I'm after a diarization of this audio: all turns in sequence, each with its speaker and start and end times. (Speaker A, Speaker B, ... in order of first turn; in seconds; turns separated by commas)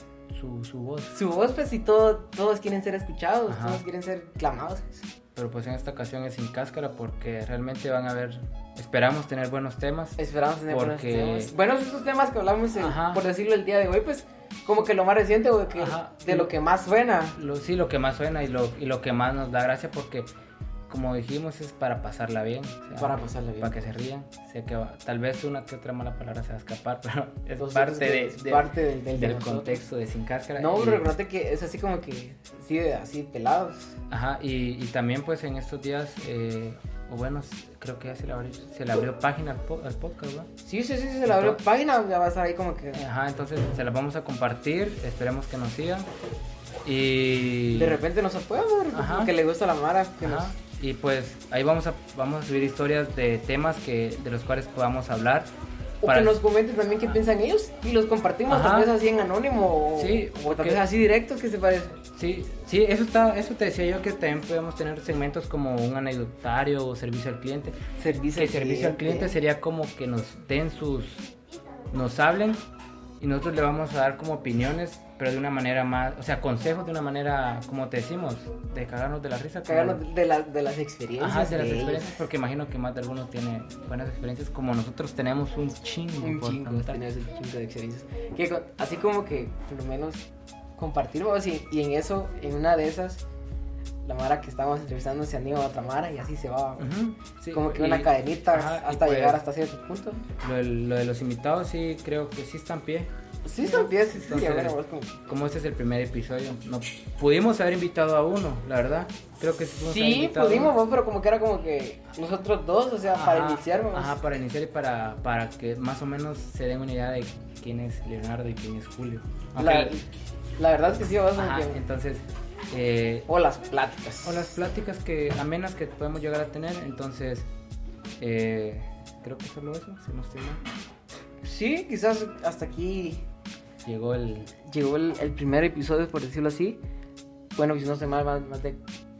Speaker A: 0.3-1.1, Speaker B: 1.1-5.1, Speaker A: 3.5-3.8, Speaker A: 5.3-10.2, Speaker B: 10.2-17.4, Speaker A: 10.7-11.5, Speaker A: 12.8-13.2, Speaker A: 15.8-16.6, Speaker A: 17.4-20.3, Speaker A: 20.9-31.1, Speaker B: 23.0-23.9, Speaker B: 27.6-29.8, Speaker B: 30.6-34.0, Speaker A: 34.1-40.5, Speaker B: 40.6-43.0, Speaker A: 41.3-41.6, Speaker A: 43.0-46.1, Speaker A: 46.8-48.0, Speaker B: 47.7-50.5, Speaker A: 48.9-49.3, Speaker A: 50.2-55.5, Speaker B: 56.0-62.0, Speaker A: 56.0-56.4, Speaker A: 58.5-59.0, Speaker A: 60.0-60.8, Speaker A: 62.1-67.8, Speaker B: 68.0-69.3, Speaker A: 68.3-71.3, Speaker A: 71.9-72.6, Speaker A: 73.2-80.0, Speaker B: 79.7-82.2, Speaker A: 81.2-87.0, Speaker B: 86.2-93.2, Speaker B: 94.0-96.9, Speaker A: 96.8-99.4, Speaker B: 97.5-100.2, Speaker A: 100.4-103.1, Speaker B: 103.5-105.2, Speaker A: 103.6-104.8, Speaker A: 105.3-110.8, Speaker B: 109.9-114.2, Speaker A: 113.1-120.0, Speaker B: 119.6-120.1, Speaker B: 120.6-121.8, Speaker A: 121.3-123.3, Speaker B: 123.3-124.6, Speaker A: 124.2-127.5, Speaker A: 128.2-130.6, Speaker B: 131.4-133.2, Speaker A: 133.8-134.6, Speaker B: 134.6-136.8, Speaker B: 137.6-138.8